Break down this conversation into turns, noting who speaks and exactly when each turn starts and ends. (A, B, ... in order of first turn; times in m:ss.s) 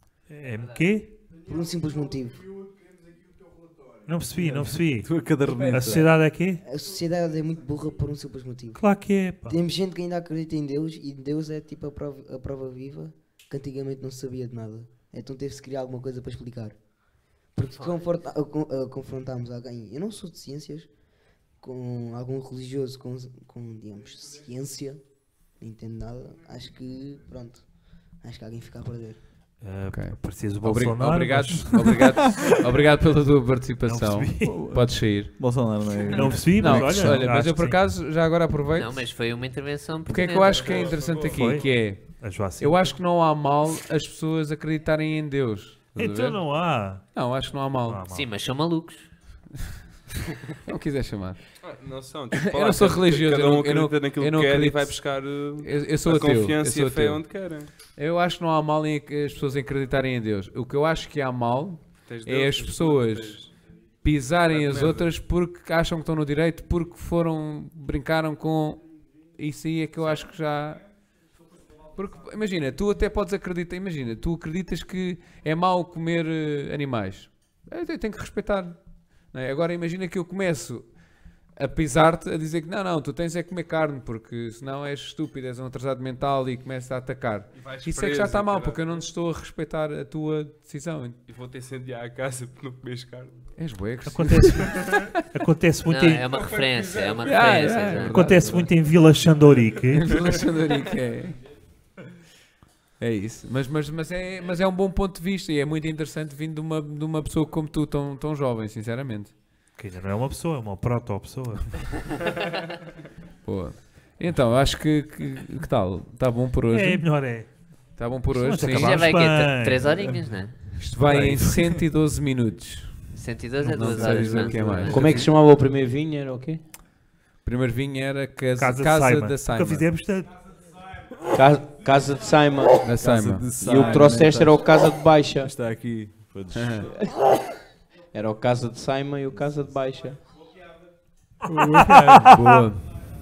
0:00.3-0:01.2 A
0:01.4-0:02.5 B
0:04.1-0:06.6 A
0:04.4-0:06.1 C
0:06.6-0:16.8 B
0:08.7-0:09.6 A
0:17.6-0:20.9 B
0:17.7-0:18.0 D
0:21.6-0:25.0 B
0:25.6-0:27.6 B
0:28.2-0:29.2 B
0:29.6-0:32.4 A
0:29.9-0:35.6 E
0:33.8-0:34.6 A
0:34.4-0:37.1 C
0:36.1-0:37.8 A
0:36.4-0:39.1 E
0:38.7-0:40.9 D
0:40.0-0:46.4 E
0:40.5-0:41.6 F
0:41.3-0:43.0 A
0:45.9-0:47.0 A
0:47.1-0:48.0 E
0:47.9-0:48.3 A
0:48.1-0:49.1 D
0:50.6-0:51.4 E
0:51.6-0:57.7 F
0:52.3-0:57.2 E
0:57.9-1:03.4 E
1:02.1-1:03.5 F
1:04.0-1:08.8 E
1:04.5-1:05.1 F
1:09.4-1:10.8 E
1:11.9-1:18.8 E
1:19.3-1:20.8 E
1:21.6-1:31.2 E
1:27.5-1:29.1 F
1:31.3-1:33.3 F
1:33.6-1:35.0 E
1:34.0-1:36.2 A
1:35.8-1:38.5 D
1:36.4-1:37.5 F
1:37.2-1:38.7 E
1:38.0-1:40.2 A
1:40.0-1:41.4 E
1:43.0-1:49.3 E
1:49.8-1:51.9 A
1:53.4-1:57.1 E
1:56.7-1:57.6 A
1:58.0-1:59.1 E
1:58.3-2:00.1 A
1:58.6-2:00.6 D
2:00.8-2:03.0 E
2:01.1-2:01.7 A
2:03.1-2:05.2 D
2:03.6-2:05.2 E
2:03.7-2:05.2 C
2:04.9-2:06.6 G
2:07.4-2:09.9 E
2:08.6-2:10.3 A
2:11.3-2:15.6 G
2:12.8-2:13.5 E
2:13.0-2:14.8 C
2:15.4-2:16.9 C
2:16.5-2:16.8 E
2:16.8-2:17.1 G
2:18.1-2:20.2 G
2:21.5-2:22.9 E
2:21.8-2:22.2 A